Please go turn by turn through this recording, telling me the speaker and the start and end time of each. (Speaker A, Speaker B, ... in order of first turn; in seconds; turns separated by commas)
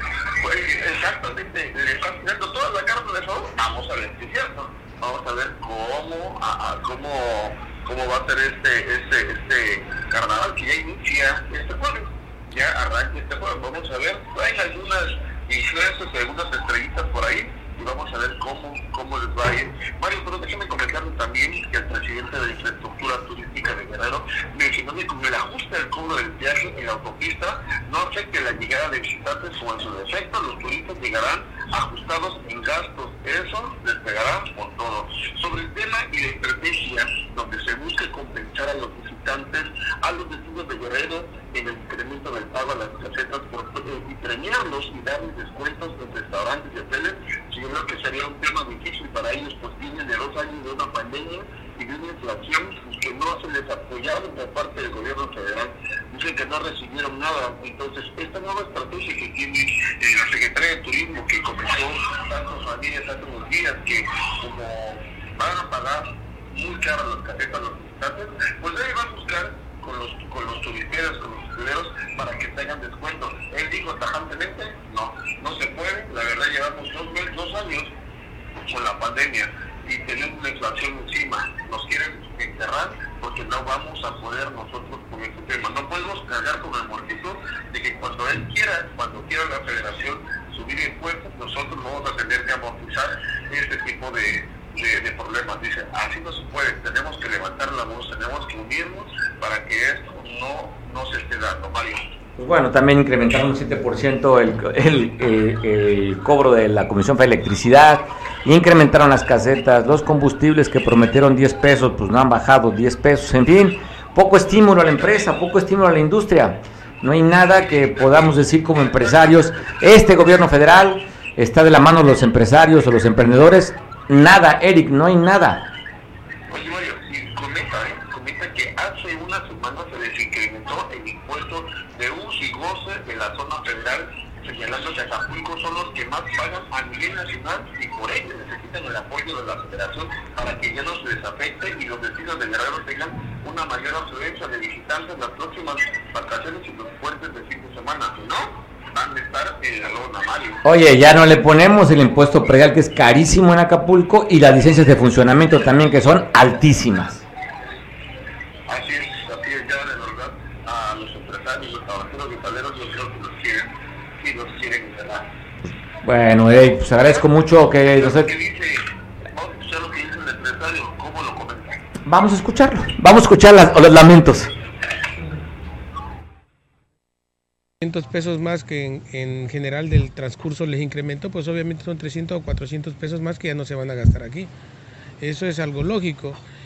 Speaker A: 0.4-77.9, Speaker A: 78.6-102.1, Speaker B: 102.4-125.7, Speaker A: 126.5-150.6, Speaker B: 150.6-157.2, Speaker A: 158.7-165.3, Speaker B: 166.0-168.3, Speaker A: 167.9-168.8, Speaker A: 169.3-171.8, Speaker B: 172.0-174.5, Speaker C: 177.8-184.5, Speaker C: 185.2-186.4